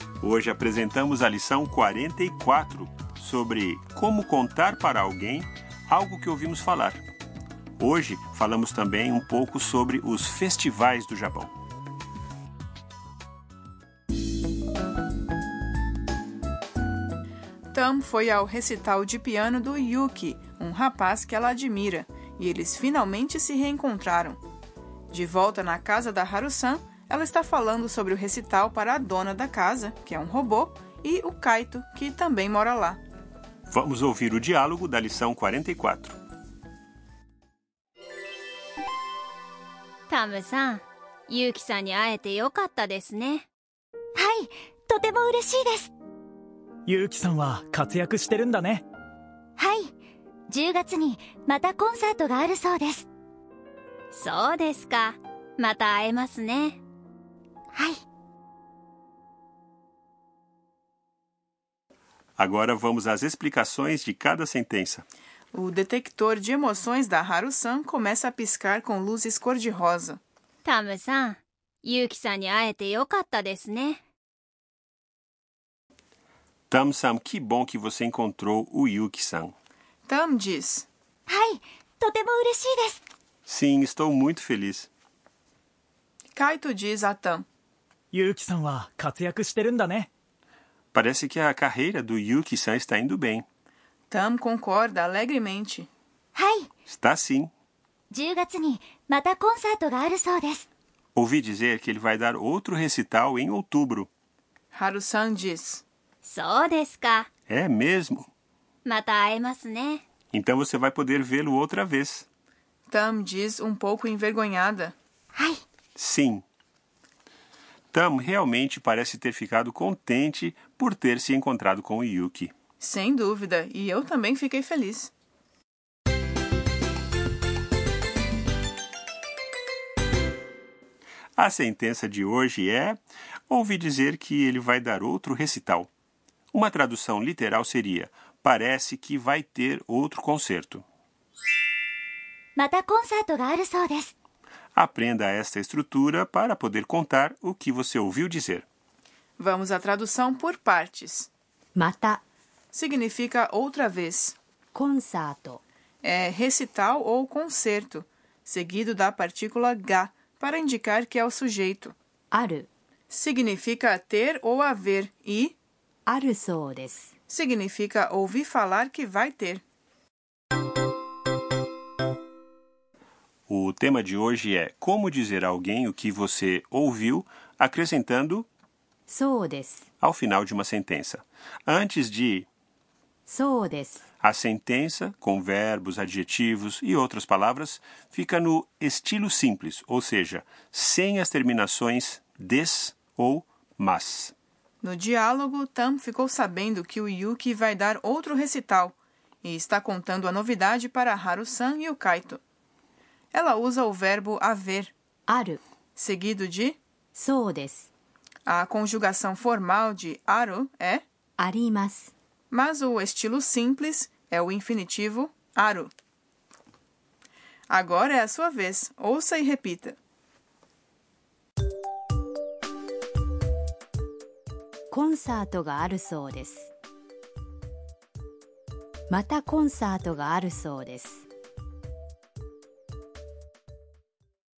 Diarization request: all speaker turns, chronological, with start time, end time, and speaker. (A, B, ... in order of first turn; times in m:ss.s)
0:00.2-0:07.0 A
0:07.8-0:11.5 A
0:17.7-0:24.4 B
0:25.1-0:33.0 B
0:33.7-0:36.2 A
0:40.1-0:43.5 C
0:44.2-0:45.9 D
0:46.9-0:48.8 E
0:49.6-0:49.9 D
0:50.5-0:53.1 D
0:54.1-0:56.8 C
0:57.7-0:58.0 D
1:02.4-1:05.1 A
1:05.5-1:10.2 B
1:10.6-1:14.0 C
1:16.7-1:19.5 A
1:20.1-1:20.9 B
1:21.3-1:23.0 D
1:23.5-1:24.9 A
1:26.4-1:27.4 B
1:28.1-1:30.1 E
1:30.9-1:33.5 A
1:34.1-1:35.9 B
1:36.4-1:36.7 D
1:36.9-1:37.5 A
1:38.1-1:40.7 D
1:41.2-1:44.1 A
1:44.7-1:45.8 B
1:46.2-1:47.3 C
1:47.5-1:48.3 A
1:48.8-1:50.0 C
1:50.3-1:52.3 A
1:52.9-1:55.0 B
1:55.4-1:55.6 D
1:56.0-1:56.4 A
1:57.9-2:02.5 A
2:02.8-2:05.1 B
2:11.4-2:15.9 A
2:16.5-2:20.8 A
2:22.6-2:24.1 D
2:24.8-2:28.7 A
2:29.4-2:31.3 B
2:31.8-2:32.2 F
2:32.7-2:34.4 B
2:34.7-2:35.6 F
2:36.0-2:41.9 B
2:42.3-2:42.7 F
2:43.1-2:45.5 B
2:46.1-2:47.1 F
2:47.3-2:49.6 B
2:53.5-2:58.5 A
2:59.1-2:59.9 F
3:00.0-3:02.5 A
3:03.3-3:04.0 F
3:04.2-3:14.3 A
3:14.8-3:22.4 B
3:23.3-3:24.9 B
3:25.3-3:25.6 F
3:26.0-3:26.8 B
3:27.1-3:27.9 F
3:28.5-3:31.0 B
3:31.4-3:32.1 F
3:32.5-3:35.9 B
3:37.7-3:40.0 B
3:44.9-3:46.7 F
3:49.1-3:51.2 F